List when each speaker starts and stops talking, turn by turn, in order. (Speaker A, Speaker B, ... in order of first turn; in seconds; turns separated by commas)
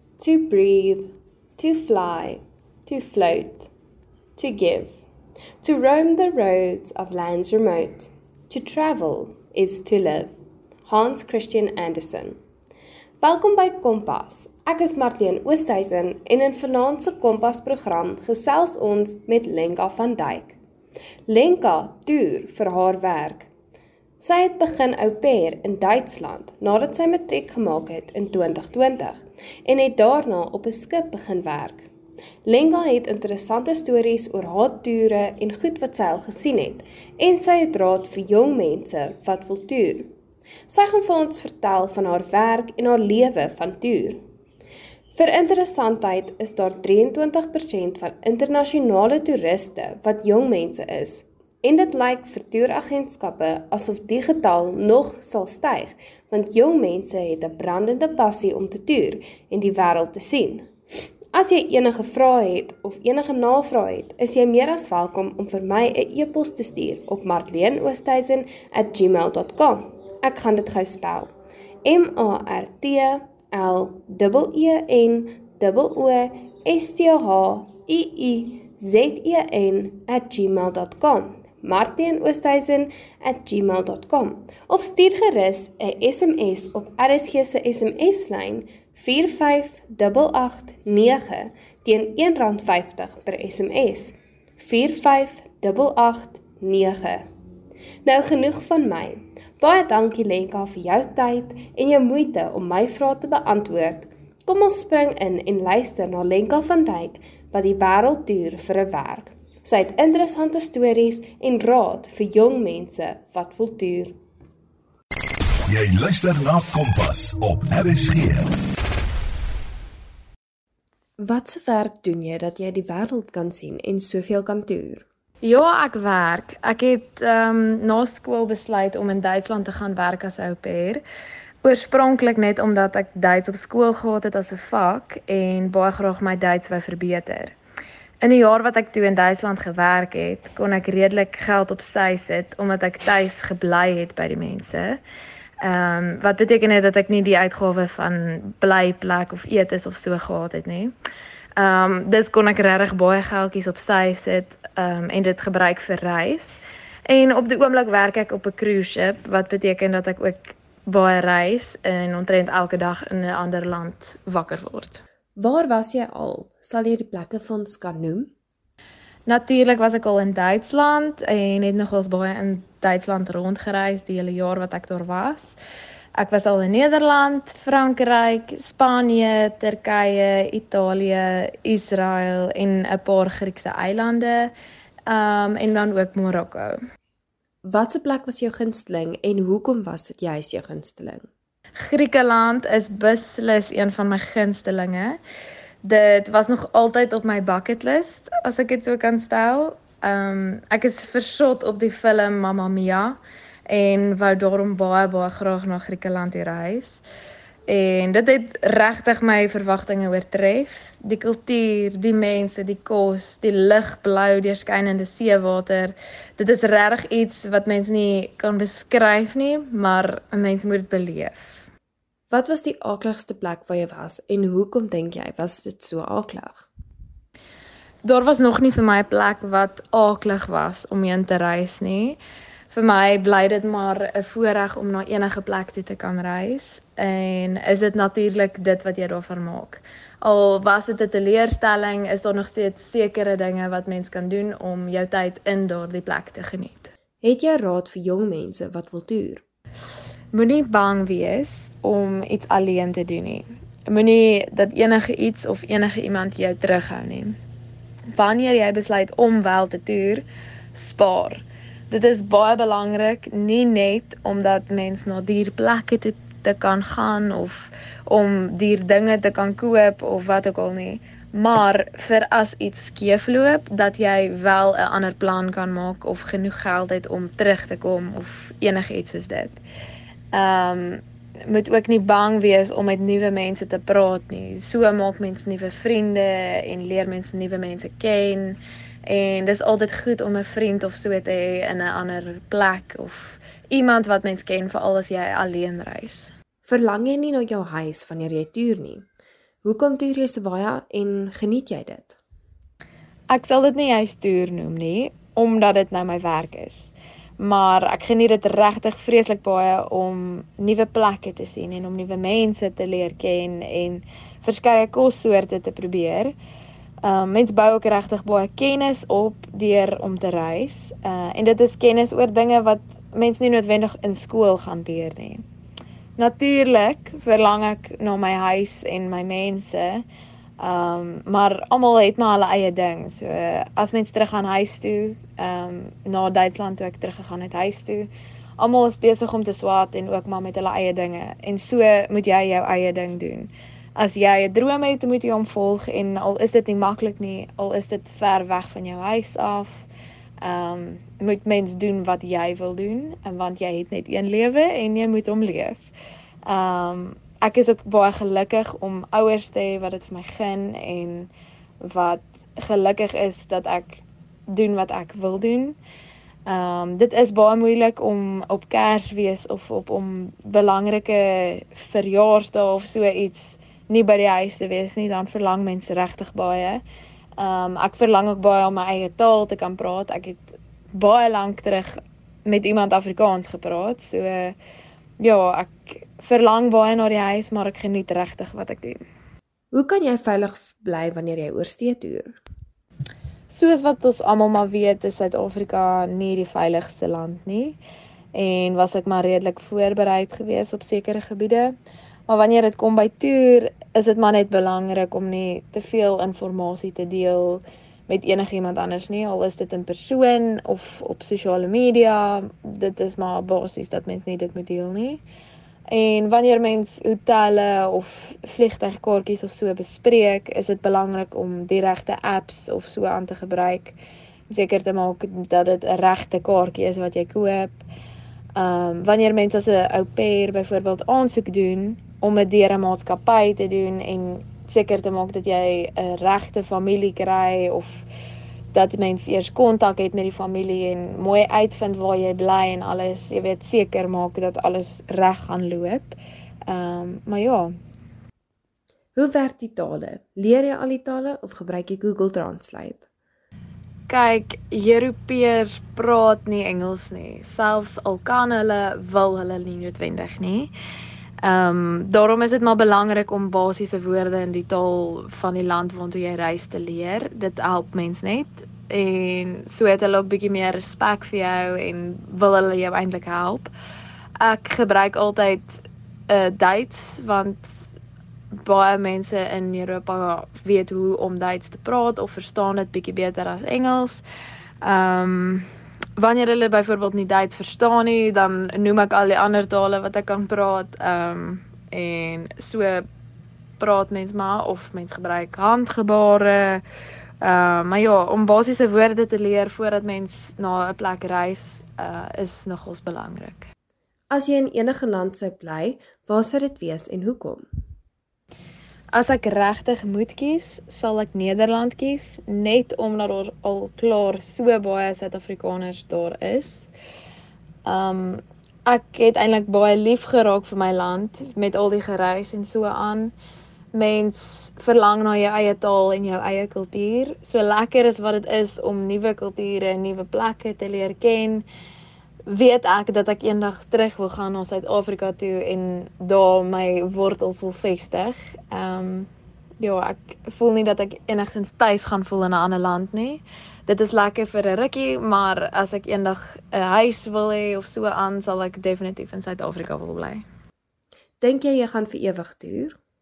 Speaker A: 0.2-3.7, Speaker A: 4.4-5.0, Speaker A: 5.6-10.3, Speaker A: 10.8-12.4, Speaker A: 13.2-20.6, Speaker A: 21.3-23.5, Speaker A: 24.2-31.9, Speaker A: 32.4-40.1, Speaker A: 40.7-44.2, Speaker A: 45.1-60.7, Speaker A: 61.3-71.3, Speaker A: 71.8-97.2, Speaker A: 98.0-114.2, Speaker B: 115.7-118.5, Speaker A: 121.2-125.0, Speaker C: 125.4-131.0, Speaker C: 131.6-137.5, Speaker C: 138.2-145.0, Speaker C: 145.6-150.9, Speaker C: 151.6-165.0, Speaker A: 165.4-168.3, Speaker C: 169.2-175.6, Speaker C: 176.2-184.5, Speaker C: 185.1-186.8, Speaker A: 187.6-191.3, Speaker C: 191.8-195.2, Speaker C: 195.8-207.0, Speaker C: 207.7-221.6, Speaker A: 222.3-226.7, Speaker C: 228.0-232.2, Speaker C: 232.7-246.9, Speaker A: 247.2-249.4, Speaker C: 250.3-257.4, Speaker C: 258.1-279.6, Speaker C: 280.3-296.3, Speaker A: 296.6-299.1, Speaker A: 299.6-302.2, Speaker C: 303.3-316.3, Speaker C: 317.0-325.4, Speaker C: 326.2-330.1, Speaker C: 330.6-349.9, Speaker C: 350.4-355.9, Speaker C: 356.4-361.3, Speaker C: 361.8-365.8, Speaker C: 366.5-376.8, Speaker C: 377.4-384.6, Speaker C: 385.2-389.0, Speaker A: 389.7-392.4, Speaker C: 393.5-397.8, Speaker C: 398.3-401.8, Speaker C: 402.3-415.2, Speaker C: 415.9-424.0, Speaker C: 424.5-427.8, Speaker C: 428.6-438.0, Speaker C: 438.7-447.7, Speaker A: 449.1-453.0, Speaker C: 454.1-460.7, Speaker C: 461.4-473.7, Speaker C: 474.4-477.9, Speaker C: 478.6-484.2, Speaker C: 484.8-493.0, Speaker C: 493.8-496.8, Speaker C: 497.4-503.7, Speaker A: 504.3-507.6, Speaker C: 509.1-516.9, Speaker C: 517.9-523.3, Speaker C: 523.9-531.6, Speaker C: 532.5-539.3, Speaker C: 539.8-550.4, Speaker A: 551.4-553.0